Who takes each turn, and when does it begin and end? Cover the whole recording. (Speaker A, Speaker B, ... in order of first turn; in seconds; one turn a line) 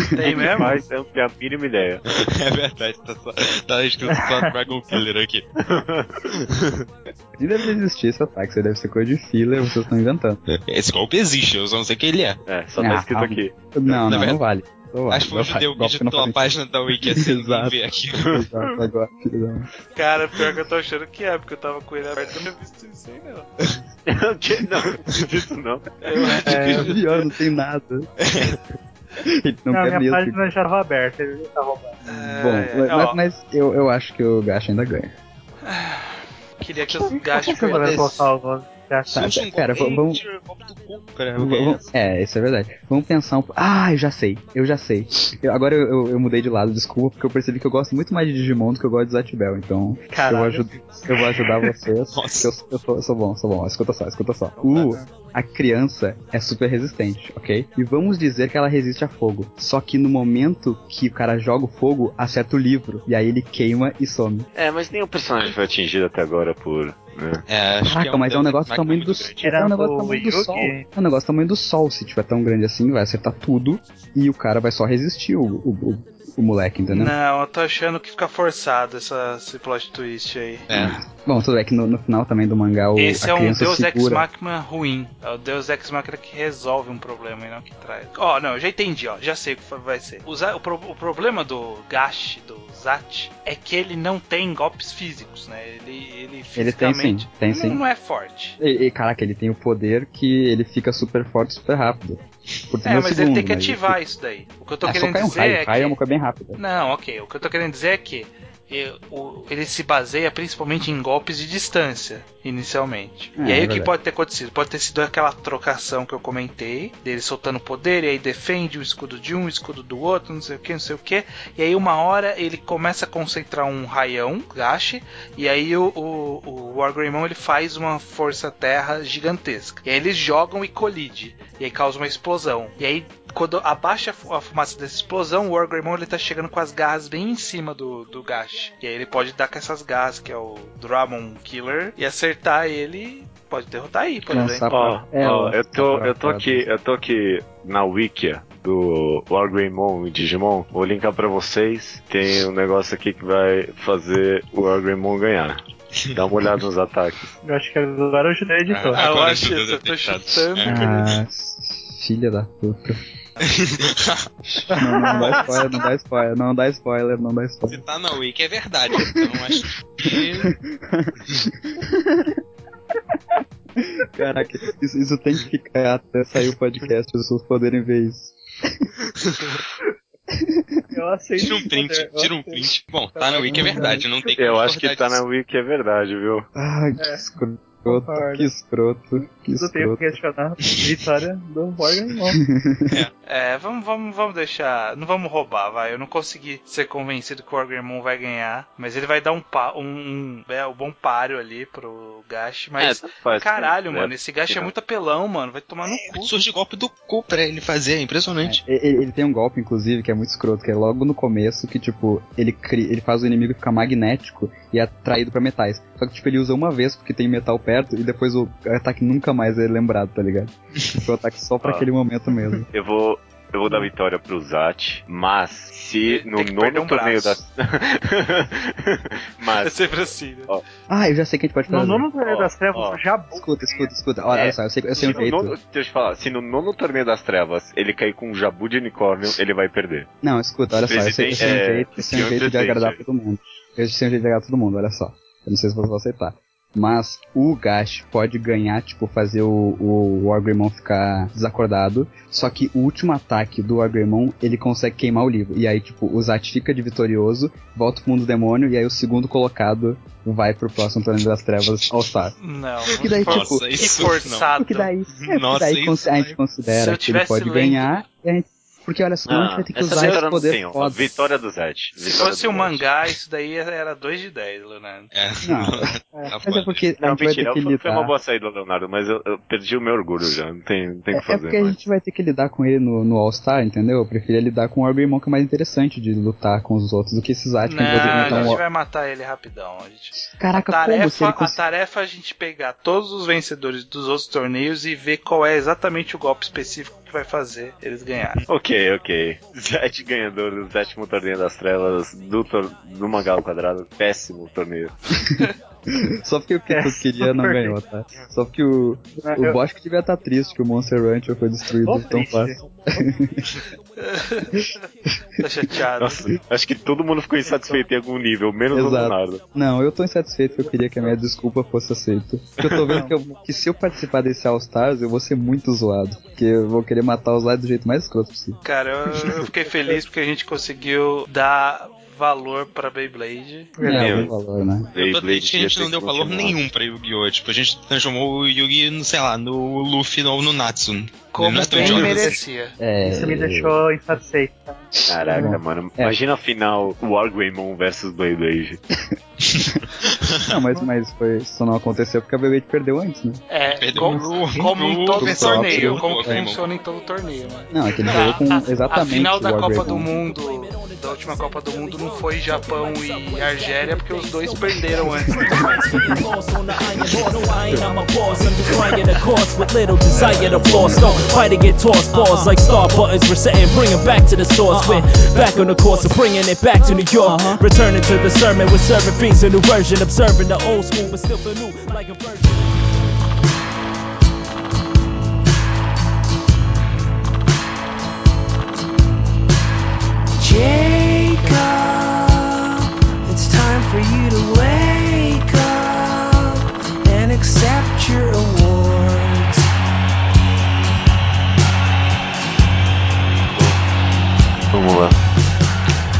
Speaker A: 0.1-0.8
Speaker B: 0.2-2.0
Speaker C: 2.1-5.4
Speaker D: 4.1-4.4
Speaker B: 5.6-6.2
Speaker C: 6.3-6.8
Speaker E: 7.4-10.4
Speaker C: 10.5-12.4
Speaker B: 12.4-14.0
Speaker E: 12.8-16.4
Speaker C: 14.0-14.4
Speaker C: 15.1-18.4
Speaker E: 17.0-17.8
Speaker E: 18.3-19.7
Speaker A: 19.9-23.5
Speaker B: 24.1-26.6
Speaker A: 26.0-27.0
Speaker D: 26.4-26.9
Speaker E: 26.7-28.2
Speaker C: 28.2-28.6
Speaker E: 29.2-30.4
Speaker D: 29.7-32.0
Speaker A: 32.0-33.2
Speaker E: 32.0-35.1
Speaker A: 35.6-38.2
Speaker D: 37.3-39.1
Speaker C: 37.5-38.2
Speaker C: 39.0-41.9
Speaker E: 39.1-40.2
Speaker E: 41.4-64.5
Speaker D: 50.1-50.6
Speaker C: 52.1-52.5
Speaker D: 54.6-55.0
Speaker B: 64.5-67.4
Speaker C: 67.5-69.5
Speaker E: 67.8-77.1
Speaker D: 69.4-70.8
Speaker A: 76.9-80.6
Speaker C: 80.7-81.0
Speaker E: 80.7-84.2
Speaker A: 83.0-98.6
Speaker E: 96.5-97.8
Speaker E: 98.6-104.0
Speaker A: 102.8-106.0
Speaker E: 104.8-106.6
Speaker A: 106.6-144.7
Speaker E: 113.4-113.9
Speaker E: 144.3-146.7
Speaker B: 144.7-155.6
Speaker B: 156.1-157.3
Speaker D: 157.4-159.0
Speaker C: 158.7-161.0
Speaker A: 158.9-161.1
Speaker E: 160.6-163.0
Speaker C: 163.4-164.2
Speaker E: 164.4-167.8
Speaker D: 164.7-165.6
Speaker C: 167.7-170.5
Speaker E: 170.1-172.4
Speaker E: 173.8-178.9
Speaker E: 180.3-180.8
Speaker D: 180.9-184.1
Speaker C: 181.4-185.2
Speaker E: 183.4-184.1
Speaker B: 184.3-186.5
Speaker E: 186.5-190.2
Speaker D: 187.0-187.3
Speaker D: 187.9-188.5
Speaker D: 189.6-192.4
Speaker E: 192.4-193.0
Speaker A: 193.2-206.3
Speaker B: 202.8-204.7
Speaker C: 205.9-208.6
Speaker E: 208.4-222.7
Speaker B: 221.6-221.9
Speaker B: 222.7-230.6
Speaker A: 226.0-227.4
Speaker A: 229.6-230.5
Speaker E: 230.9-232.1
Speaker D: 231.7-233.9
Speaker B: 232.2-233.0
Speaker E: 233.3-235.6
Speaker B: 234.3-240.1
Speaker E: 240.2-262.4
Speaker B: 240.8-243.0
Speaker A: 262.4-264.9
Speaker E: 262.9-271.2
Speaker C: 263.1-264.5
Speaker C: 265.1-266.4
Speaker A: 266.7-268.0
Speaker B: 269.3-272.8
Speaker A: 272.0-275.1
Speaker C: 275.1-276.9
Speaker E: 275.4-278.1
Speaker B: 277.0-281.8
Speaker E: 281.1-288.6
Speaker A: 287.6-298.4
Speaker B: 287.9-288.6
Speaker E: 290.2-291.6
Speaker B: 298.5-304.9
Speaker E: 306.2-313.5
Speaker D: 306.7-307.7
Speaker D: 309.2-309.6
Speaker D: 311.8-312.6
Speaker A: 314.0-314.5
Speaker A: 315.4-316.3
Speaker B: 316.0-319.4
Speaker D: 317.4-317.8
Speaker E: 318.7-328.6
Speaker B: 322.6-323.0
Speaker A: 328.6-333.7
Speaker D: 333.8-334.1
Speaker E: 333.8-334.9
Speaker B: 333.9-334.3
Speaker B: 334.9-336.6
Speaker C: 334.9-342.4
Speaker A: 341.3-342.7
Speaker E: 342.8-343.7
Speaker D: 343.0-345.6
Speaker B: 345.1-348.8
Speaker E: 345.1-346.2
Speaker C: 349.4-350.5
Speaker E: 350.4-353.4
Speaker A: 353.5-365.8
Speaker C: 353.8-356.6
Speaker E: 355.1-356.5
Speaker E: 357.7-360.2
Speaker F: 358.8-359.1
Speaker F: 359.8-383.1
Speaker E: 365.6-366.2
Speaker E: 370.1-371.4
Speaker G: 390.4-399.6
Speaker B: 404.7-405.1